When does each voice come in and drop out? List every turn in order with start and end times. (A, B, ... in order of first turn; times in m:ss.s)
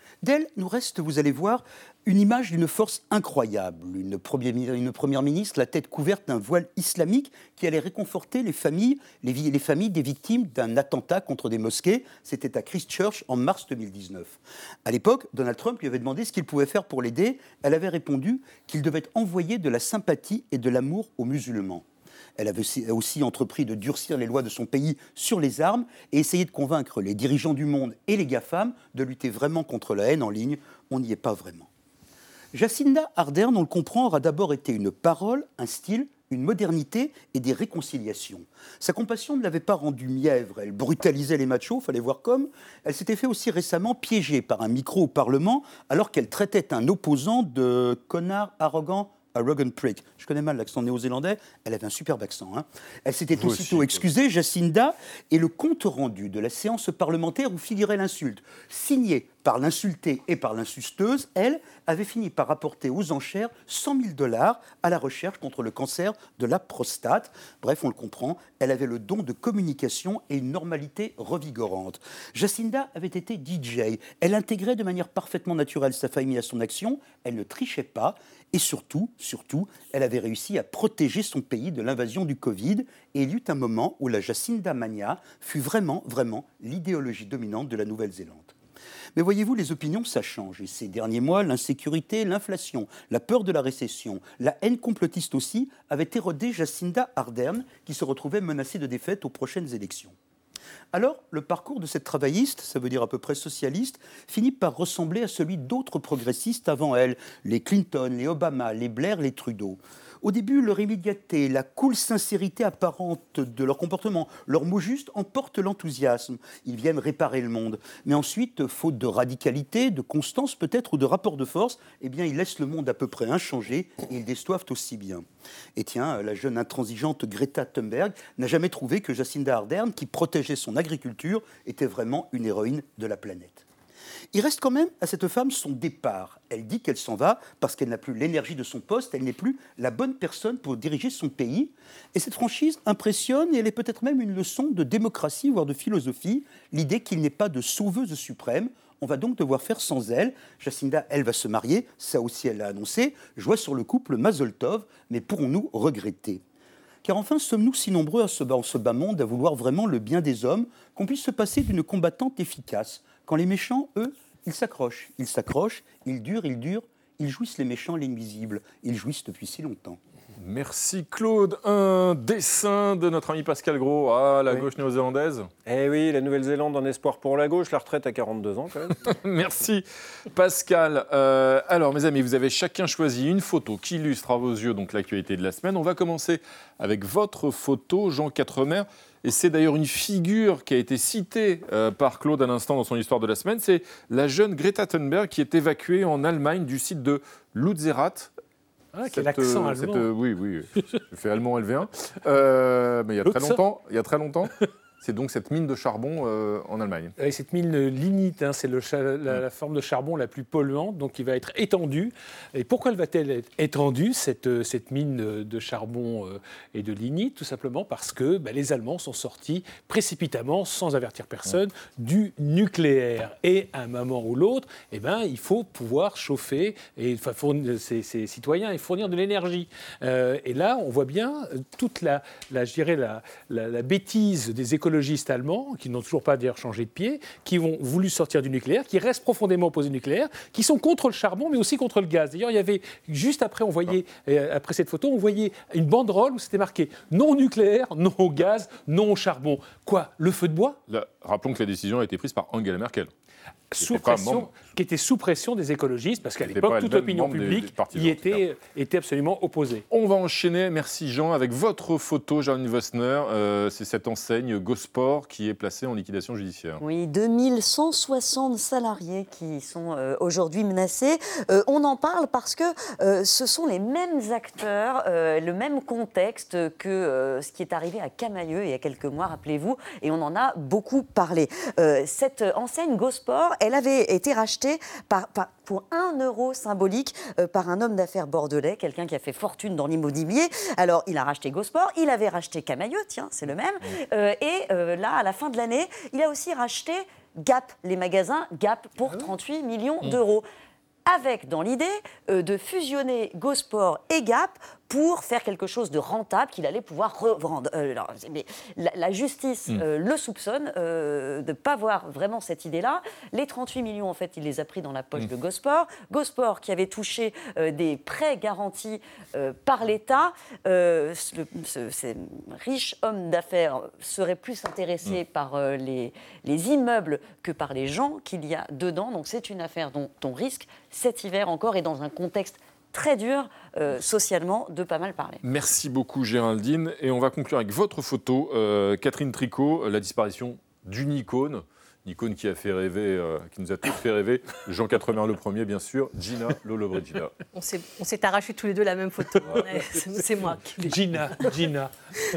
0:00.2-0:21.8 A
0:22.4-0:31.7 A
0:32.5-1:28.5 A
0:53.4-0:54.0 B
1:29.1-1:40.1 A
1:40.9-2:05.2 A
2:05.8-2:13.6 A
2:14.3-2:36.4 A
2:37.0-2:50.0 A
2:50.4-2:55.5 B
2:55.6-2:59.0 C
2:59.0-3:18.3 B
3:18.9-3:20.1 D
3:19.1-3:27.1 B
3:23.2-3:23.6 D
3:27.2-4:10.8 D
4:10.9-4:13.1 B
4:13.7-4:19.8 D
4:13.8-4:14.5 B
4:16.4-4:18.4 B
4:19.9-4:26.8 B
4:26.8-5:00.4 E
5:01.0-5:35.4 E
5:35.4-5:47.3 B
5:47.5-5:51.5 F
5:50.8-5:51.9 D